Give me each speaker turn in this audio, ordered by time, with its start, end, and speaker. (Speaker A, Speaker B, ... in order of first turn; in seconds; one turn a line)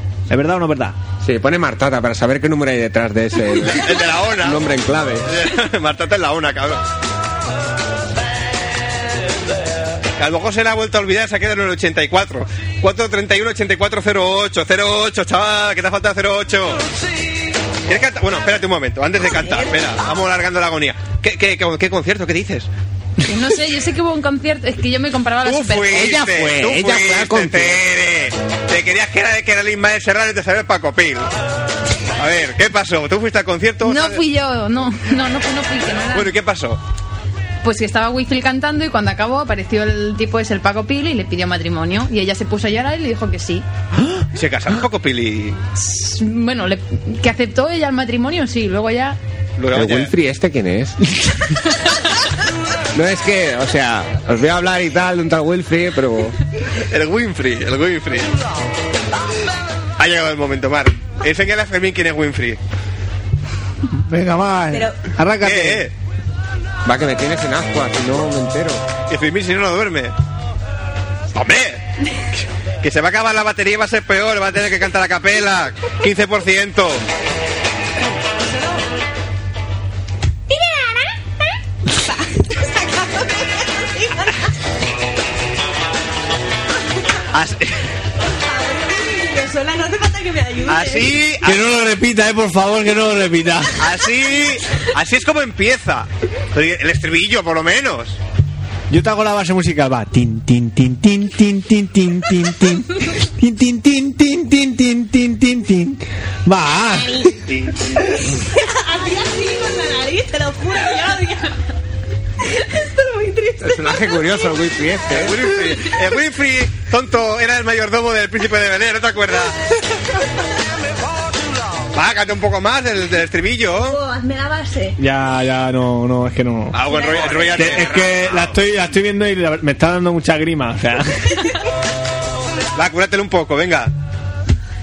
Speaker A: 0.3-0.9
Speaker B: 1.2-5.3
Speaker C: 3.7-4.6
Speaker C: 5.2-6.8
Speaker C: 10.2-16.8
Speaker C: 17.9-22.7
Speaker D: 23.2-26.1
Speaker C: 25.4-31.3
Speaker B: 25.9-27.8
Speaker C: 32.1-34.2
Speaker D: 33.8-36.3
Speaker C: 36.1-36.8
Speaker D: 37.6-43.6
Speaker C: 44.3-45.6
Speaker D: 45.8-49.2
Speaker C: 49.6-50.1
Speaker B: 49.7-51.0
Speaker B: 52.9-56.4
Speaker C: 56.8-58.3
Speaker C: 60.0-62.6
Speaker A: 64.0-65.9
Speaker E: 64.7-65.1
Speaker C: 65.4-65.9
Speaker B: 66.8-68.8
Speaker C: 69.1-70.1
Speaker C: 71.3-71.8
Speaker C: 72.8-77.0
Speaker E: 78.4-78.8
Speaker E: 80.5-84.5
Speaker C: 87.3-87.8
Speaker E: 88.3-91.2
Speaker C: 90.7-91.6
Speaker A: 91.4-93.8
Speaker C: 93.8-98.2
Speaker A: 98.9-107.3
Speaker E: 106.9-107.3
Speaker C: 107.5-107.9
Speaker E: 108.2-111.5
Speaker E: 112.4-114.5
Speaker B: 113.6-115.7
Speaker C: 115.1-119.5
Speaker C: 121.9-124.0
Speaker E: 123.8-125.0
Speaker A: 125.0-126.8
Speaker C: 126.7-128.6
Speaker E: 126.9-127.9
Speaker A: 127.5-131.4
Speaker C: 132.7-133.9